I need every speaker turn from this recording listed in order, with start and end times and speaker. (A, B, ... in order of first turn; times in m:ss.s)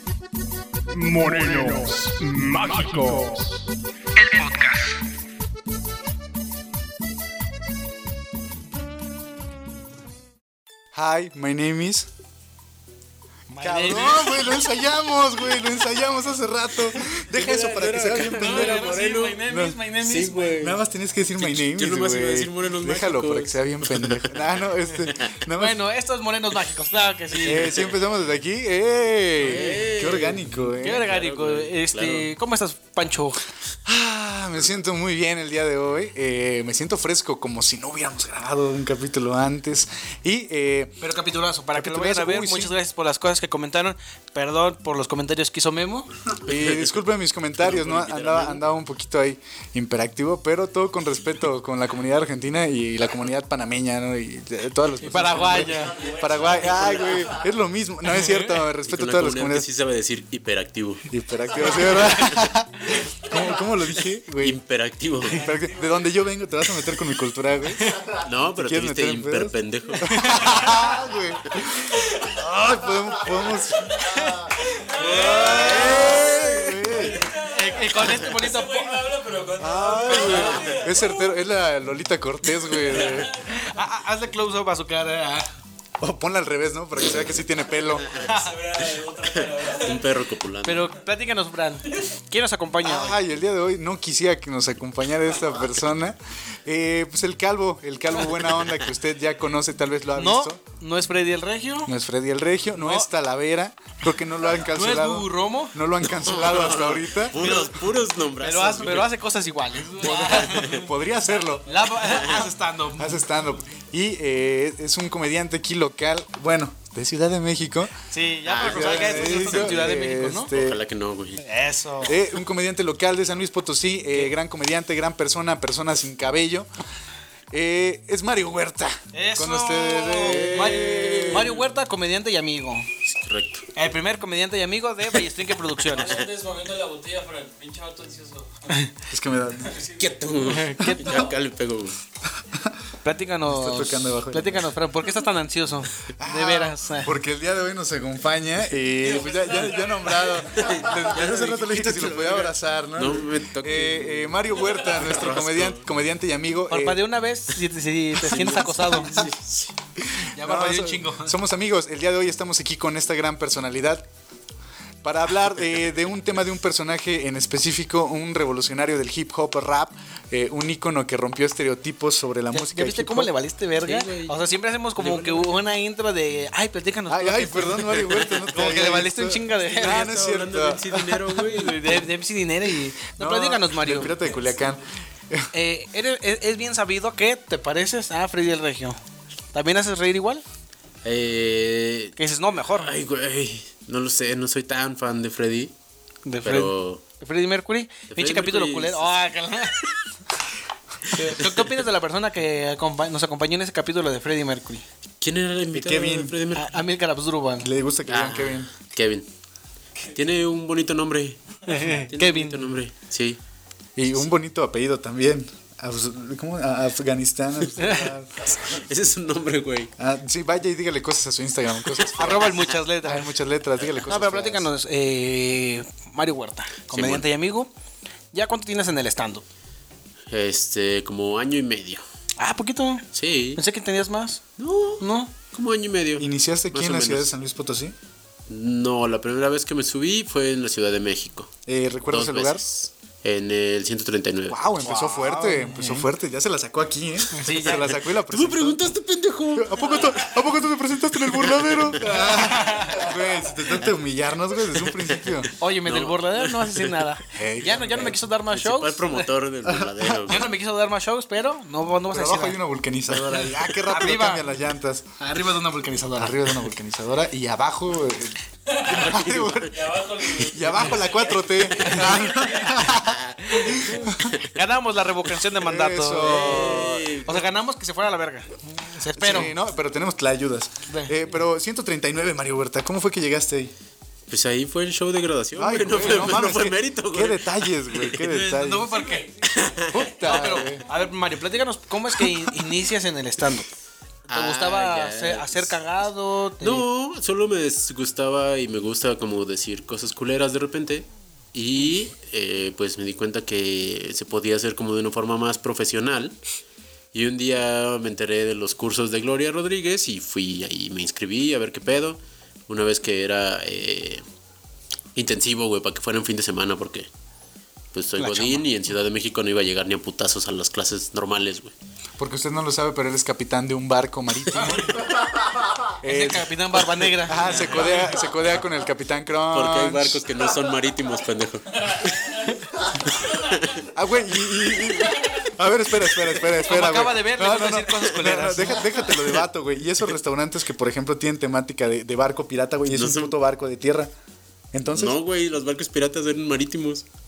0:00.9-0:03.6 A
0:04.2-0:05.0 B
0:10.9-0:12.1 C
0:13.5-0:14.5 B
0:13.6-0:18.9 C
0:17.1-0:19.4 D
0:18.3-0:20.6 B
0:19.4-0:19.8 C
0:20.0-0:20.8 D
0:20.6-0:25.8 C
0:21.4-0:24.4 D
0:25.1-0:25.3 D
0:25.6-0:27.9 B
0:27.4-0:31.1 C
0:27.5-0:27.8 D
0:29.4-0:32.3 D
0:30.8-0:33.4 B
0:33.9-0:41.0 C
0:41.0-0:46.1 B
0:41.8-0:42.7 C
0:46.4-0:59.7 C
0:46.4-0:47.0 D
0:47.6-0:48.6 D
0:55.0-0:56.2 B
0:55.2-0:57.5 E
0:56.3-0:57.3 D
0:58.1-0:58.6 B
0:58.8-1:01.1 D
1:01.1-1:04.6 C
1:01.6-1:02.2 B
1:04.4-1:05.4 D
1:05.3-1:08.0 C
1:05.3-1:05.9 E
1:07.8-1:08.2 B
1:08.2-1:10.7 D
1:08.6-1:13.9 C
1:10.1-1:10.6 B
1:11.9-1:12.3 E
1:13.7-1:21.4 E
1:14.0-1:19.0 B
1:15.0-1:17.2 C
1:15.9-1:16.2 D
1:19.6-1:23.3 C
1:20.2-1:20.7 D
1:22.6-1:23.8 E
1:23.4-1:25.5 B
1:26.0-1:28.1 C
1:28.1-1:30.1 E
1:28.1-1:28.6 B
1:29.2-1:30.9 D
1:30.6-1:33.2 B
1:32.8-1:40.6 C
1:40.2-1:41.9 B
1:41.9-1:47.4 C
1:42.8-1:43.1 B
1:44.7-1:45.8 B
1:46.0-1:49.2 D
1:47.4-1:47.8 B
1:48.4-1:50.7 B
1:48.8-1:49.1 E
1:49.7-1:52.5 E
1:50.0-1:50.9 D
1:50.5-1:51.7 C
1:51.7-1:53.2 B
1:52.0-1:52.4 D
1:53.0-1:58.0 C
1:58.1-2:00.5 B
1:58.4-2:01.4 D
1:58.6-2:00.8 C
2:01.4-2:02.2 B
2:02.0-2:06.7 C
2:07.5-2:11.6 C
2:09.1-2:12.9 B
2:10.3-2:11.6 D
2:13.2-2:13.7 D
2:13.8-2:16.2 B
2:15.8-2:18.9 E
2:19.1-2:19.7 C
2:19.6-2:20.0 E
2:20.0-2:22.0 D
2:20.5-2:21.2 B
2:21.0-2:21.3 E
2:22.4-2:22.8 C
2:23.0-2:27.1 B
2:23.5-2:24.7 C
2:26.2-2:37.0 C
2:29.0-2:30.7 E
2:30.6-2:35.9 D
2:36.7-2:39.3 B
2:38.2-2:39.8 D
2:38.3-2:39.0 C
2:40.0-2:44.1 C
2:40.3-2:41.4 B
2:45.0-2:53.3 C
2:52.5-3:00.1 B
2:53.8-2:54.4 D
2:55.0-2:55.5 D
2:57.1-3:01.5 C
2:59.8-3:02.1 D
3:01.4-3:04.2 B
3:03.2-3:05.5 C
3:04.2-3:04.8 E
3:05.5-3:09.0 B
3:09.5-3:10.4 B
3:11.0-3:12.2 D
3:12.2-3:12.9 B
3:12.7-3:15.7 D
3:16.3-3:19.9 B
3:16.4-3:17.0 D
3:18.1-3:19.2 D
3:21.1-3:21.6 D
3:21.1-3:24.8 B
3:25.2-3:26.8 D
3:25.7-3:26.4 C
3:26.5-3:27.7 B
3:27.6-3:28.7 C
3:28.1-3:29.3 D
3:30.1-3:33.4 D
3:31.6-3:32.6 B
3:34.0-3:38.5 C
3:37.8-3:38.1 B
3:38.6-3:39.9 D
3:40.0-3:44.7 C
3:42.0-3:42.6 D
3:42.2-3:43.3 B
3:44.1-3:47.7 B
3:46.9-3:47.3 D
3:48.3-3:49.4 B
3:50.3-3:52.0 D
3:52.4-3:54.4 B
3:53.1-3:53.6 D
3:54.6-3:57.3 D
3:55.0-3:55.3 B
3:56.2-3:58.0 C
3:58.5-4:01.5 D
4:01.7-4:02.6 C
4:02.1-4:04.6 D
4:04.5-4:08.8 C
4:04.8-4:06.1 B
4:07.3-4:07.9 B
4:07.5-4:10.3 D
4:09.6-4:15.5 C
4:11.5-4:12.3 D
4:12.2-4:13.0 B
4:14.7-4:17.0 D
4:15.6-4:19.2 B
4:17.3-4:18.2 C
4:17.9-4:20.5 D
4:19.6-4:20.1 C
4:20.3-4:22.6 B
4:22.1-4:25.1 C
4:23.8-4:24.5 B
4:25.2-4:26.5 B
4:26.2-4:34.4 C
4:28.7-4:33.0 E
4:29.0-4:29.7 D
4:33.0-4:33.4 D
4:33.5-4:39.5 B
4:35.5-4:37.2 C
4:36.2-4:37.5 D
4:39.1-4:43.7 C
4:40.9-4:41.1 B
4:44.3-4:48.3 D
4:45.5-4:48.9 C
4:45.9-4:46.6 B
4:48.2-4:49.3 B
4:48.7-4:50.9 E
4:49.4-4:50.6 D
4:49.9-4:50.9 C
4:50.2-4:53.7 B
4:52.2-4:52.5 C
4:54.3-4:55.8 D
4:54.3-4:56.9 B
4:56.6-5:06.4 D
5:07.1-5:14.2 D
5:15.2-5:17.1 D
5:17.9-5:21.7 D
5:18.2-5:18.6 B
5:22.2-5:25.0 C
5:26.0-5:30.2 C
5:26.0-5:27.7 B
5:27.4-5:28.0 D
5:29.5-5:32.3 D
5:31.9-5:32.5 E
5:33.1-5:33.7 D
5:33.9-5:44.1 C
5:35.1-5:35.4 E
5:36.6-5:39.0 B
5:39.1-5:39.4 D
5:42.9-5:43.3 D
5:44.7-5:45.2 C
5:44.9-5:47.0 D